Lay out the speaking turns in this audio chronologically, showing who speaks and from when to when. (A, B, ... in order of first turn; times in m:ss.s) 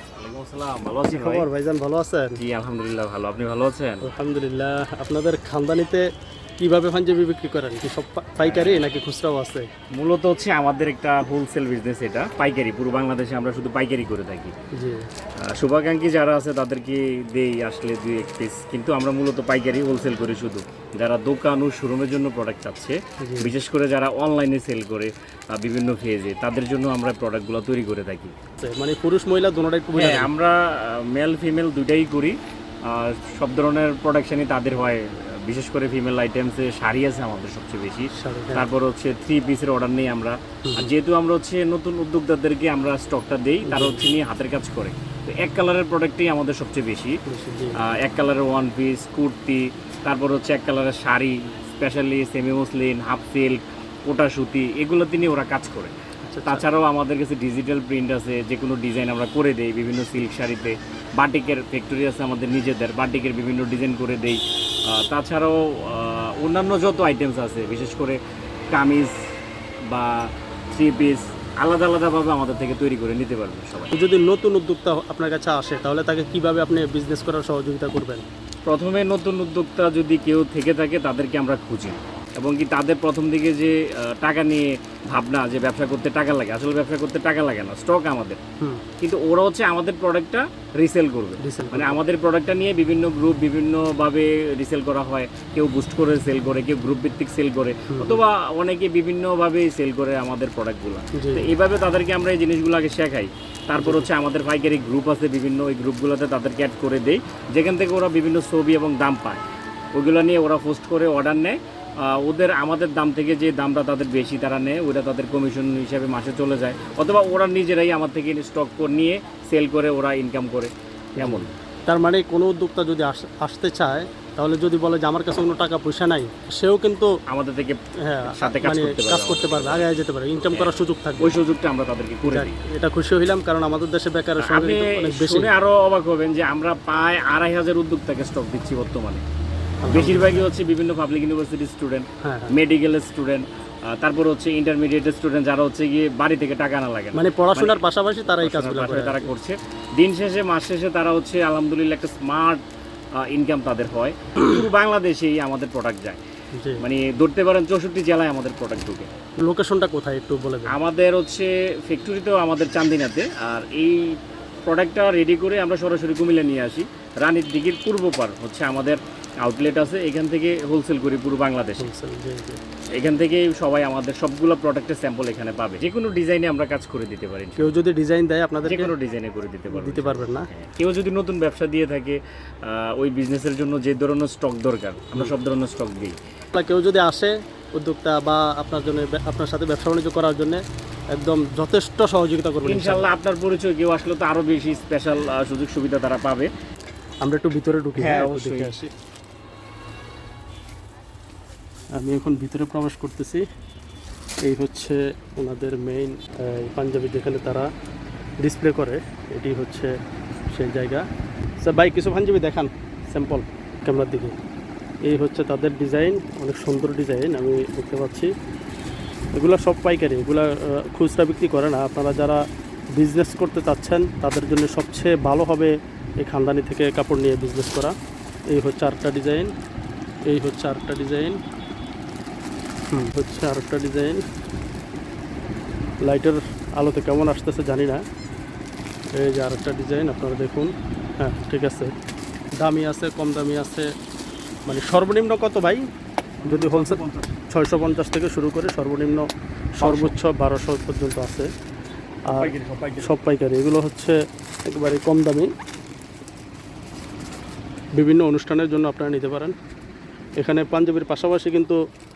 0:00.2-0:01.5 A
0:01.1-0:02.4 B
0:02.4-0:04.1 A
0:04.0-0:06.1 B
0:06.6-0:09.7 B
0:08.4-0:08.9 A
0:10.0-0:14.5 A
0:14.8-0:15.1 B
0:15.4-0:28.3 A
0:23.2-0:23.5 B
0:28.6-0:30.3 B
0:30.0-0:47.2 A
0:38.1-0:38.7 B
0:40.7-0:40.9 B
0:43.7-0:44.0 B
0:47.3-0:47.8 B
0:47.8-0:55.9 A
0:56.3-0:56.7 B
0:56.4-1:08.2 A
1:08.7-1:09.2 A
1:09.9-1:13.9 A
1:13.9-1:18.3 B
1:18.7-1:28.4 A
1:29.0-1:49.4 A
1:31.4-1:32.0 B
1:37.9-1:38.2 B
1:41.2-1:41.5 B
1:43.8-1:44.1 B
1:50.0-2:01.5 A
2:01.2-2:07.1 B
2:07.3-2:09.9 A
2:08.0-2:11.4 B
2:10.5-2:12.6 A
2:12.2-2:15.5 B
2:14.4-2:19.2 A
2:19.8-2:20.5 B
2:19.9-2:32.6 A
2:22.2-2:22.6 B
2:27.2-2:29.3 B
2:33.2-2:36.2 A
2:36.6-2:36.8 B
2:36.8-2:39.1 A
2:39.4-2:40.8 B
2:40.7-2:51.9 A
2:51.8-2:52.6 B
2:53.0-2:57.8 A
2:57.6-2:58.9 B
2:58.6-3:06.2 A
2:59.7-3:00.5 B
3:06.5-3:10.6 B
3:11.1-3:13.1 B
3:12.6-3:16.5 A
3:17.2-3:18.9 B
3:18.0-3:18.8 A
3:22.0-3:23.4 B
3:24.4-3:27.7 B
3:28.4-3:30.0 B
3:30.5-3:31.0 B
3:31.6-3:34.4 B
3:35.1-3:38.3 B
3:39.4-3:42.4 B
3:43.0-3:48.0 B
3:48.5-3:49.5 B
3:50.3-3:51.4 B
3:52.9-3:54.2 B
3:56.0-3:58.0 B
3:59.2-4:01.9 B
4:02.6-4:03.9 B
4:04.7-4:05.9 B
4:06.4-4:07.3 A
4:06.4-4:09.3 B
4:09.8-4:11.5 B
4:09.8-4:10.2 A
4:12.3-4:15.5 B
4:12.4-4:13.1 A
4:18.0-4:19.6 B
4:20.4-4:21.8 B